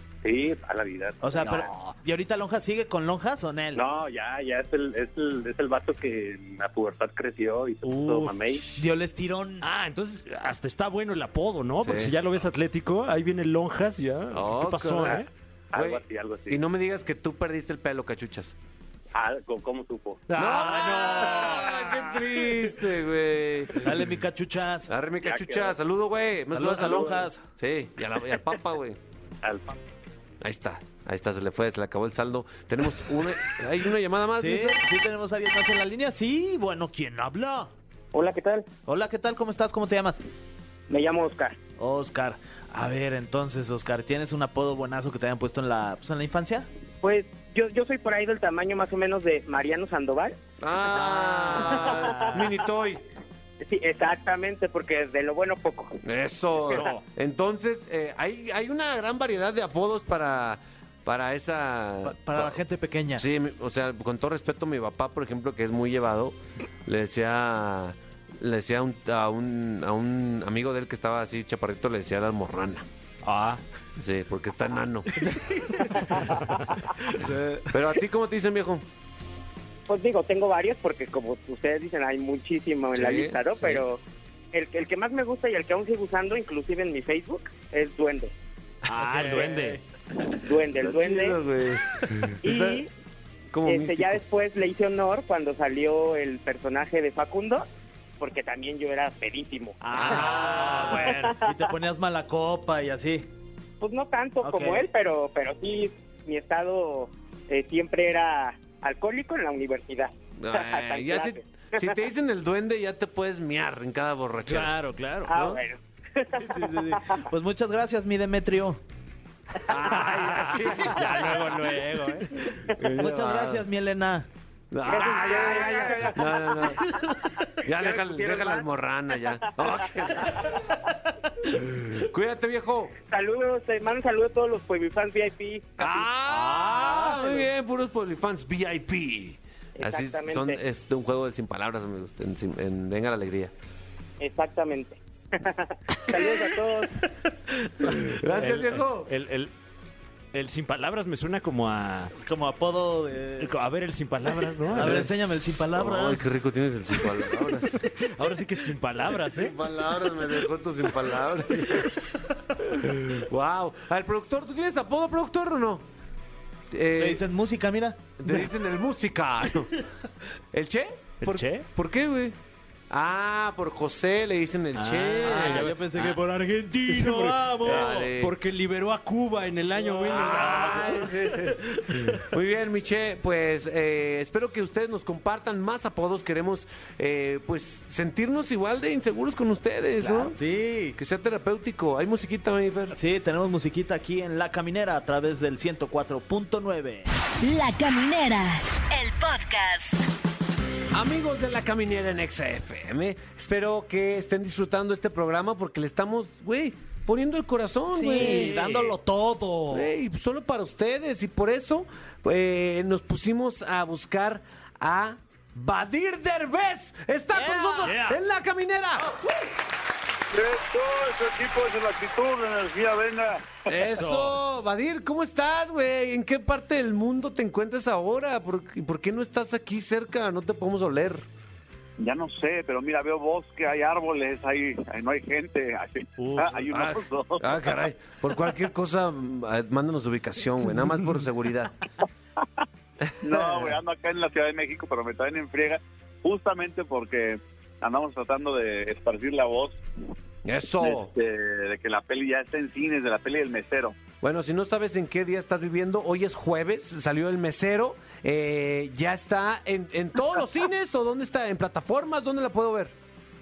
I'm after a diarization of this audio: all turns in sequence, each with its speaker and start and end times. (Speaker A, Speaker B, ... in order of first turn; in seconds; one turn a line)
Speaker A: 0.2-1.7
Speaker B: 1.2-3.8
Speaker A: 3.7-8.6
Speaker C: 7.8-8.7
Speaker B: 8.8-9.7
Speaker C: 9.6-15.3
Speaker D: 11.8-12.1
Speaker D: 14.3-18.5
Speaker A: 15.7-16.6
Speaker A: 19.1-20.2
Speaker C: 20.3-22.5
Speaker D: 20.3-24.0
Speaker B: 23.8-24.9
Speaker D: 24.9-29.0
Speaker A: 25.2-25.8
Speaker B: 26.5-27.4
Speaker A: 29.4-29.8
Speaker D: 30.4-34.8
Speaker B: 34.4-37.7
Speaker E: 38.1-38.7
Speaker B: 38.9-40.2
Speaker E: 40.9-41.6
Speaker B: 41.8-46.7
Speaker E: 47.0-50.4
Speaker D: 50.6-53.0
Speaker E: 51.5-52.5
Speaker E: 53.6-56.0
Speaker D: 56.0-62.6
Speaker B: 62.0-63.2
Speaker D: 63.1-72.8
Speaker C: 73.2-73.6
Speaker D: 74.0-75.1
Speaker B: 75.2-75.7
Speaker E: 75.9-76.6
Speaker B: 77.0-77.6
Speaker D: 77.6-78.8
Speaker E: 79.9-84.0
Speaker D: 82.9-83.8
Speaker E: 84.5-88.3
Speaker C: 88.9-89.8
Speaker B: 88.9-89.8
Speaker E: 90.3-91.4
Speaker D: 90.7-92.8
Speaker E: 92.4-92.9
Speaker D: 93.5-94.2
Speaker E: 93.7-97.7
Speaker E: 98.2-99.8
Speaker C: 99.8-101.4
Speaker B: 99.9-103.3
Speaker D: 100.0-100.9
Speaker E: 101.1-101.5
Speaker E: 103.8-111.9
Speaker B: 104.4-104.9
Speaker D: 110.4-114.7
Speaker C: 114.5-115.3
Speaker D: 115.3-115.6
Speaker E: 115.3-117.2
Speaker B: 116.3-118.8
Speaker D: 119.6-121.6
Speaker C: 119.9-122.5
Speaker D: 122.7-123.6
Speaker B: 122.8-124.3
Speaker D: 124.7-126.9
Speaker E: 124.8-126.8
Speaker E: 127.6-128.7
Speaker D: 127.6-130.5
Speaker E: 129.8-130.7
Speaker D: 131.5-132.9
Speaker E: 133.1-136.1
Speaker D: 135.8-143.5
Speaker E: 139.8-140.6
Speaker E: 144.2-147.1
Speaker D: 147.9-149.1
Speaker C: 148.3-149.5
Speaker C: 150.3-152.1
Speaker B: 152.2-153.5
Speaker C: 153.4-155.1
Speaker B: 154.7-156.2
Speaker D: 154.8-155.0
Speaker D: 155.8-157.9
Speaker C: 157.9-159.6
Speaker D: 159.2-161.9
Speaker D: 162.7-165.8
Speaker D: 166.7-167.2
Speaker B: 167.0-168.0
Speaker D: 168.2-169.8
Speaker D: 170.5-172.3
Speaker C: 171.2-171.7
Speaker D: 172.9-175.7
Speaker C: 174.7-176.2
Speaker B: 175.2-178.1
Speaker C: 176.8-181.3
Speaker D: 177.6-178.3
Speaker B: 179.8-181.1
Speaker D: 180.0-181.6
Speaker B: 181.7-182.1
Speaker D: 182.2-190.4
Speaker B: 190.0-191.0
Speaker D: 190.9-192.9
Speaker B: 192.9-197.1
Speaker F: 197.4-200.1
Speaker D: 200.9-208.6
Speaker B: 207.9-209.9
Speaker C: 208.1-208.9
Speaker D: 209.7-219.1
Speaker B: 217.6-218.1
Speaker C: 217.8-218.2
Speaker G: 220.3-223.8
Speaker D: 223.7-231.2
Speaker G: 232.0-237.8
Speaker C: 236.2-236.6
Speaker D: 236.7-241.8
Speaker G: 243.2-249.8
Speaker D: 243.3-243.6
Speaker D: 250.4-251.1
Speaker G: 250.8-254.0
Speaker D: 254.2-262.9